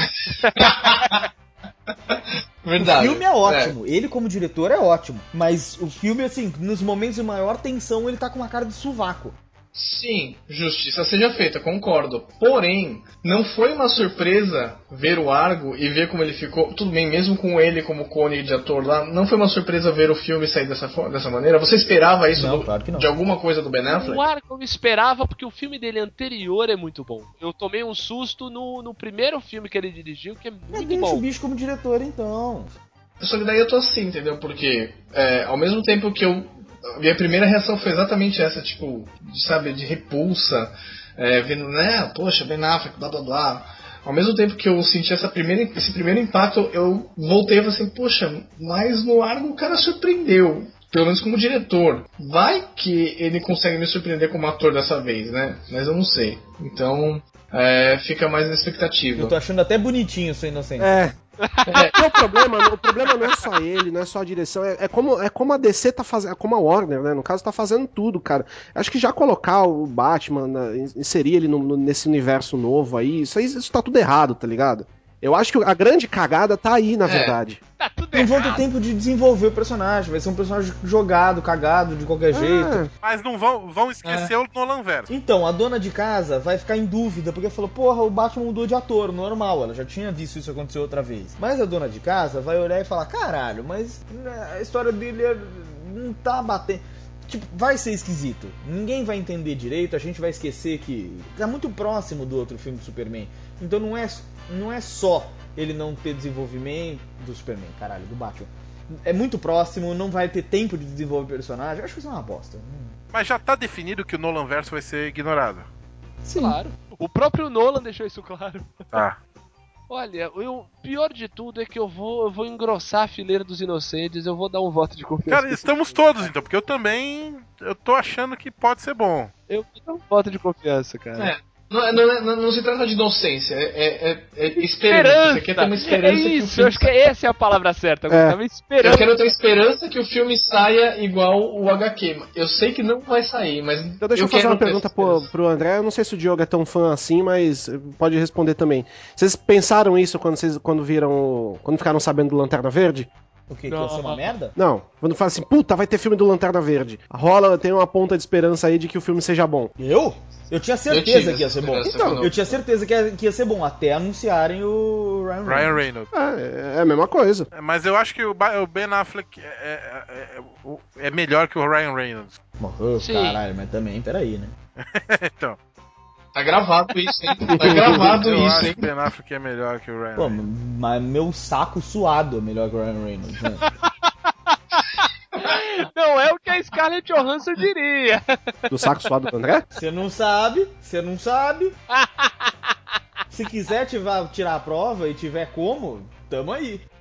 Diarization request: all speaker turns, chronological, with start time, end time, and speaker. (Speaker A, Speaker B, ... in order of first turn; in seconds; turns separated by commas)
Speaker A: 0.2-1.3, Speaker B: 0.4-1.2, Speaker A: 2.1-3.8, Speaker C: 2.8-9.4, Speaker A: 9.7-24.2, Speaker C: 22.3-23.1, Speaker B: 23.9-31.2, Speaker C: 30.7-32.8, Speaker A: 33.2-59.4, Speaker C: 59.1-61.0, Speaker D: 60.8-61.1, Speaker B: 61.4-62.9, Speaker A: 61.7-62.0, Speaker D: 62.0-77.6, Speaker A: 77.0-77.4, Speaker B: 77.8-78.6, Speaker C: 78.1-82.8, Speaker D: 82.3-82.9, Speaker E: 83.0-85.1, Speaker A: 84.0-84.3, Speaker C: 85.1-113.0, Speaker E: 113.1-115.7, Speaker C: 116.2-116.6, Speaker B: 116.4-119.0, Speaker B: 119.9-126.3, Speaker E: 125.3-129.3, Speaker B: 129.5-131.3, Speaker A: 131.2-136.9, Speaker B: 134.8-139.1, Speaker D: 138.1-138.4, Speaker A: 138.8-145.3, Speaker D: 144.0-153.1, Speaker C: 153.5-154.5, Speaker B: 153.7-154.3, Speaker D: 154.6-159.7, Speaker C: 159.8-165.8, Speaker A: 160.9-162.6, Speaker D: 161.8-162.2, Speaker E: 165.4-166.1, Speaker D: 166.1-167.5, Speaker E: 167.5-172.4, Speaker C: 172.6-174.6, Speaker B: 173.0-173.4, Speaker E: 174.8-175.6, Speaker A: 176.3-178.9, Speaker D: 177.5-178.1, Speaker E: 177.9-180.4, Speaker C: 180.2-183.7, Speaker B: 183.6-184.8, Speaker B: 185.4-189.1, Speaker D: 188.7-189.7, Speaker C: 189.7-191.8, Speaker B: 191.9-192.5, Speaker C: 193.3-196.9